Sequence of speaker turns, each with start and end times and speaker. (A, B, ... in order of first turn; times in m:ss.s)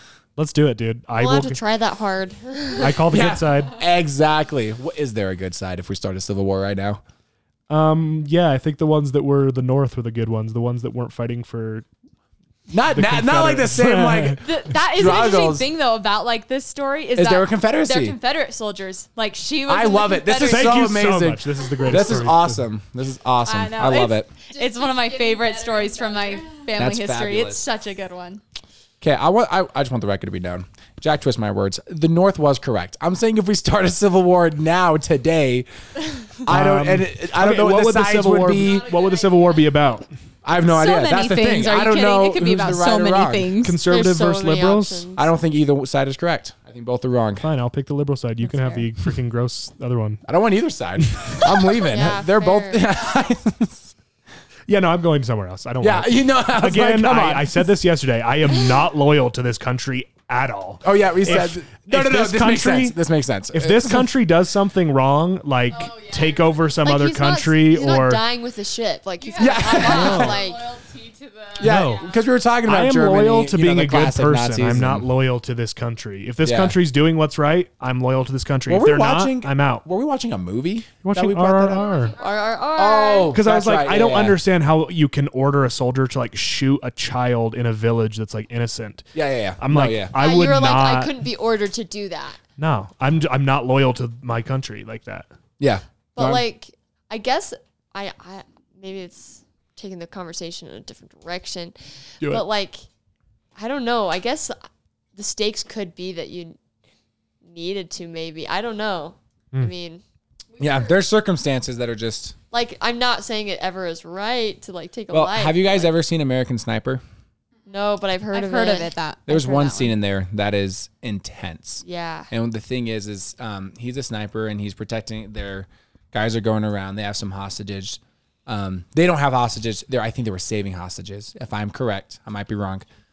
0:00.4-0:01.6 A
0:01.2-0:03.0 B
0:02.8-0:03.8 A
0:03.0-0:07.0 C
0:07.7-0:11.9 A
0:12.7-0:15.7 C
0:12.9-0:14.4 A
0:14.4-0:20.7 D
0:17.1-0:18.2 C
0:19.7-0:24.3 C
0:20.4-0:22.6 A
0:23.4-0:28.4 D
0:24.5-0:26.7 E
0:26.8-0:27.6 C
0:29.0-0:35.7 C
0:36.4-0:38.9 C
0:36.5-0:40.1 A
0:38.5-0:39.9 E
0:40.4-0:43.5 C
0:40.6-0:43.8 D
0:43.6-0:45.1 A
0:43.8-0:45.3 B
0:45.2-0:47.5 C
0:47.4-0:50.2 A
0:48.4-0:48.9 D
0:50.2-0:53.9 C
0:51.0-0:51.5 A
0:51.8-0:52.8 B
0:54.7-1:03.0 A
0:55.8-0:57.6 C
1:00.8-1:04.1 C
1:03.5-1:08.2 A
1:05.7-1:06.6 E
1:06.8-1:10.6 B
1:09.2-1:12.2 E
1:09.4-1:10.4 C
1:10.0-1:10.3 A
1:11.6-1:15.1 C
1:11.6-1:12.1 A
1:12.6-1:19.8 A
1:16.4-1:16.8 C
1:18.7-1:21.9 C
1:21.0-1:22.1 A
1:21.7-1:23.1 E
1:22.2-1:23.3 B
1:22.7-1:24.4 C
1:23.3-1:31.1 A
1:29.1-1:30.2 C
1:30.1-1:32.4 B
1:32.6-1:35.3 A
1:35.6-1:35.8 C
1:36.1-1:42.8 B
1:36.2-1:36.4 A
1:43.5-1:44.6 B
1:45.1-1:46.6 B
1:47.4-1:50.0 B
1:50.5-1:50.9 E
1:50.6-1:52.4 C
1:52.5-1:55.9 B
1:55.1-1:57.0 C
1:57.7-1:58.9 B
1:58.3-1:59.9 D
1:59.3-2:12.8 C
2:01.8-2:02.3 B